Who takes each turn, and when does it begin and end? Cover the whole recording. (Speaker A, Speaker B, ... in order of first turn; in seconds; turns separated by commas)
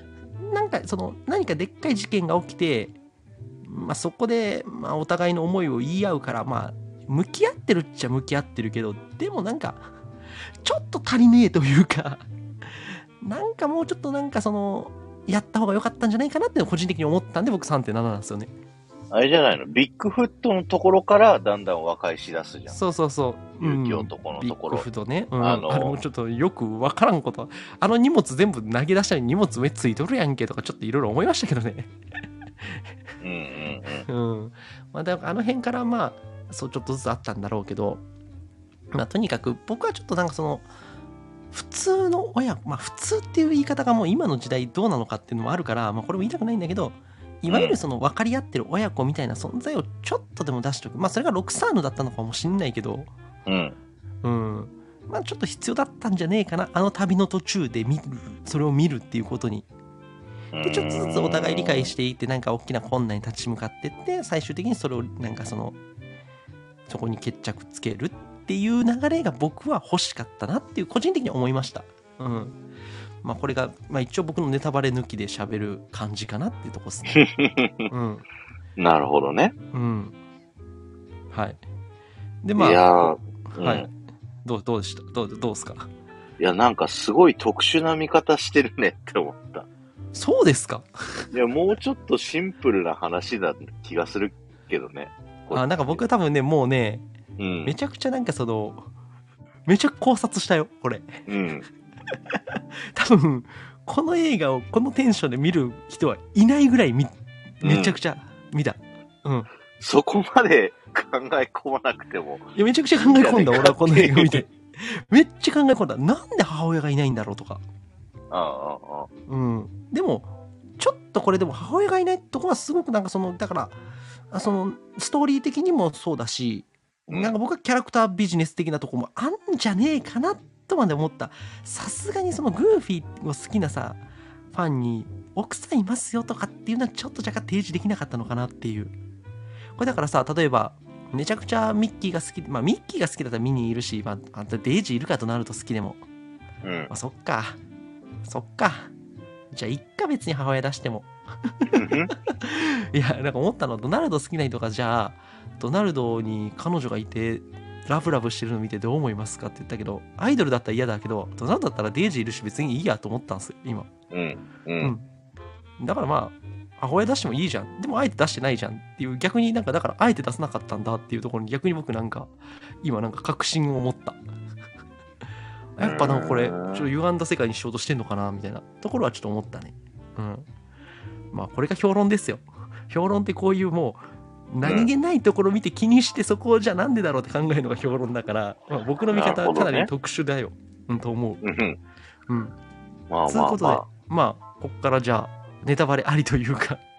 Speaker A: 0.4-3.0, Speaker A: 3.6-9.8, Speaker A: 10.6-18.5, Speaker B: 19.1-22.8, Speaker A: 22.7-31.9, Speaker B: 23.6-24.9, Speaker B: 25.4-26.0, Speaker B: 33.2-34.1, Speaker A: 34.1-38.0, Speaker A: 38.9-40.7, Speaker A: 41.5-53.1, Speaker B: 47.5-47.8, Speaker B: 53.5-53.8, Speaker A: 54.2-59.7, Speaker B: 60.5-61.9, Speaker A: 60.6-65.8, Speaker A: 66.9-72.6, Speaker A: 73.2-77.2, Speaker B: 77.1-77.9, Speaker A: 77.9-78.2, Speaker B: 78.8-79.5, Speaker A: 79.7-80.2, Speaker A: 81.3-81.6, Speaker A: 82.4-83.9, Speaker B: 82.6-83.9, Speaker A: 84.5-85.9, Speaker B: 86.4-89.7, Speaker A: 90.1-91.3, Speaker B: 91.3-96.0, Speaker A: 95.5-97.0, Speaker B: 97.4-97.8, Speaker A: 97.7-98.9, Speaker A: 99.7-101.2, Speaker B: 101.3-101.7, Speaker A: 102.1-109.5, Speaker B: 107.6-108.0, Speaker B: 109.8-114.5, Speaker A: 112.6-117.6, Speaker B: 118.3-119.1, Speaker A: 119.3-123.8, Speaker A: 124.3-134.0, Speaker B: 127.1-127.3, Speaker A: 134.5-138.9, Speaker A: 139.8-146.0, Speaker B: 146.6-146.9, Speaker A: 146.9-147.6, Speaker A: 148.2-148.9, Speaker A: 149.5-163.9, Speaker B: 151.7-152.1, Speaker B: 164.1-164.9, Speaker A: 164.8-165.1, Speaker A: 165.8-174.2, Speaker A: 175.8-180.5, Speaker B: 175.8-176.9, Speaker A: 181.3-191.4, Speaker B: 184.6-184.9, Speaker B: 189.1-189.9, Speaker B: 191.4-191.8, Speaker A: 192.3-192.6, Speaker B: 193.1-193.9, Speaker A: 193.3-196.8